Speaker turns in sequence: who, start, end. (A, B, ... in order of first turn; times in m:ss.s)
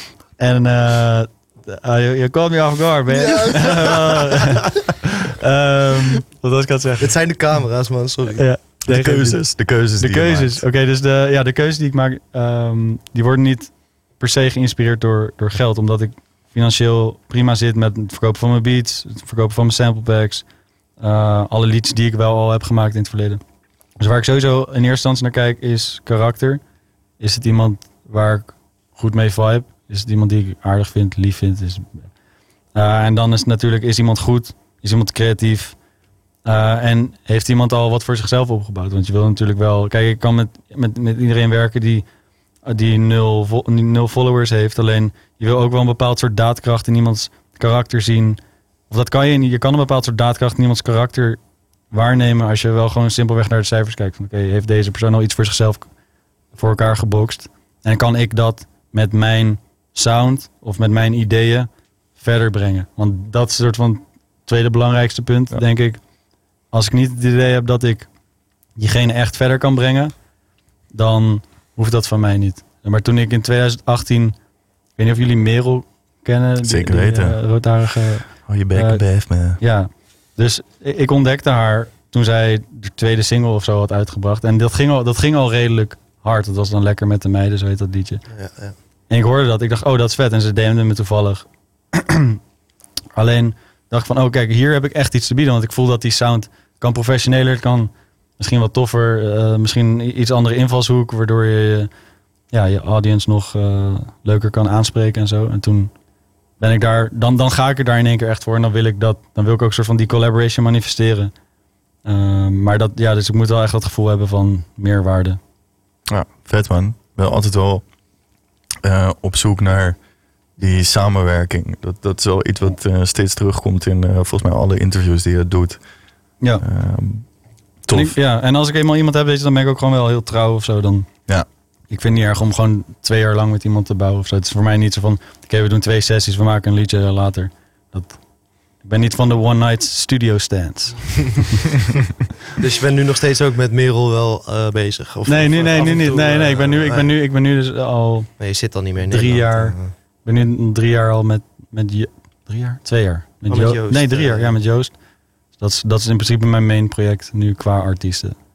0:00.4-0:07.2 A
0:03.1-0:04.6 B
0:07.0-0:08.5 B
0:08.4-0:20.4 A
0:08.8-0:10.6 C
0:21.0-0:23.4 A
0:24.0-0:26.6 A
0:27.2-0:32.1 A
0:32.7-0:35.8 A
0:36.4-0:42.0 A
0:42.6-0:51.4 A
0:51.9-0:55.9 A
0:56.6-1:06.0 A
1:06.7-1:08.1 A
1:08.8-1:10.1 A
1:10.9-1:14.4 A
1:15.0-1:19.0 A
1:16.6-1:17.4 C
1:18.5-1:19.6 C
1:19.6-1:28.2 A
1:28.3-1:28.8 B
1:29.1-1:32.4 A
1:33.2-1:41.9 A
1:42.5-1:45.9 A
1:46.6-1:51.3 A
1:52.0-1:55.4 A
1:56.1-1:57.8 C
1:58.8-2:00.0 C
2:00.6-2:05.8 C
2:06.6-2:07.3 C
2:07.8-2:08.2 C
2:07.9-2:11.1 A
2:11.9-2:18.2 A
2:18.8-2:21.4 A
2:22.6-2:27.1 B
2:25.2-2:35.0 A
2:28.4-2:29.9 B
2:33.5-2:34.5 B
2:35.6-2:38.4 A